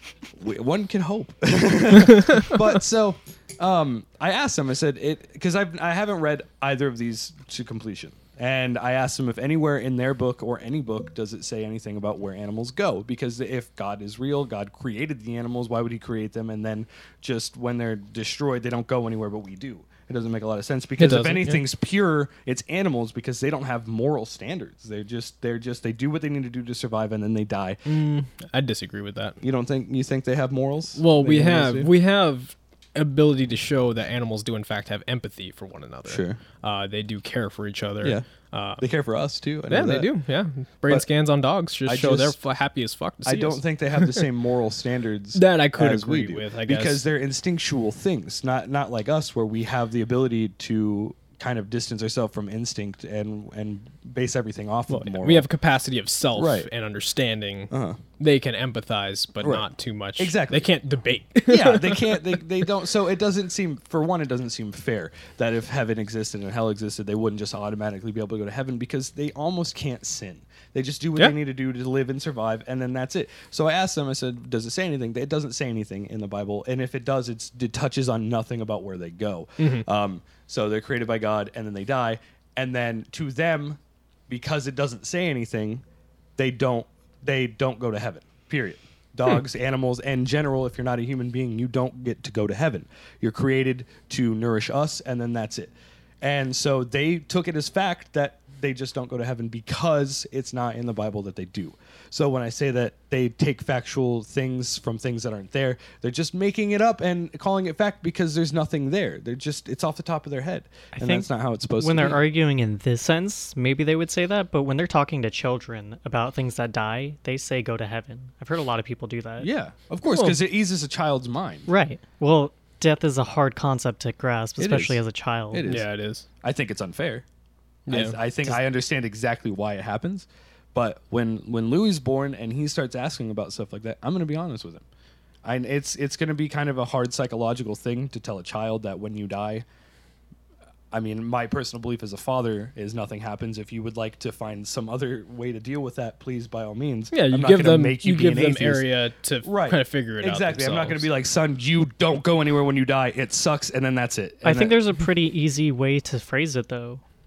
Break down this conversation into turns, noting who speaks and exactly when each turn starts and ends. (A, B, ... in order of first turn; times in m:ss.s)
0:00.3-0:27.8 A
0:02.2-0:02.5 B
0:21.0-0:21.6 B
0:27.8-0:29.4 B
0:29.4-0:31.9 A
0:31.0-0:38.8 B
0:36.0-0:36.4 A
0:38.8-0:40.1 A
0:39.7-0:44.3 B
0:41.8-0:42.4 A
0:43.2-0:55.4 A
0:45.3-0:47.0 B
0:54.9-1:02.4 B
0:56.4-0:56.7 A
0:57.7-0:58.0 A
0:59.4-0:59.7 A
1:00.2-1:00.6 A
1:01.5-1:25.8 A
1:19.6-1:19.8 B
1:26.4-1:52.2 A
1:50.9-1:59.5 C
1:59.4-2:01.7 A
2:00.1-2:00.4 B
2:01.7-2:05.7 C
2:04.6-2:05.0 A
2:05.5-2:05.8 A
2:05.6-2:06.2 B
2:06.4-2:07.2 A
2:07.9-2:08.2 B
2:07.9-2:14.8 A
2:15.4-2:19.6 A
2:20.9-2:28.8 A
2:27.1-2:31.1 B
2:29.4-2:34.8 A
2:34.4-2:37.0 C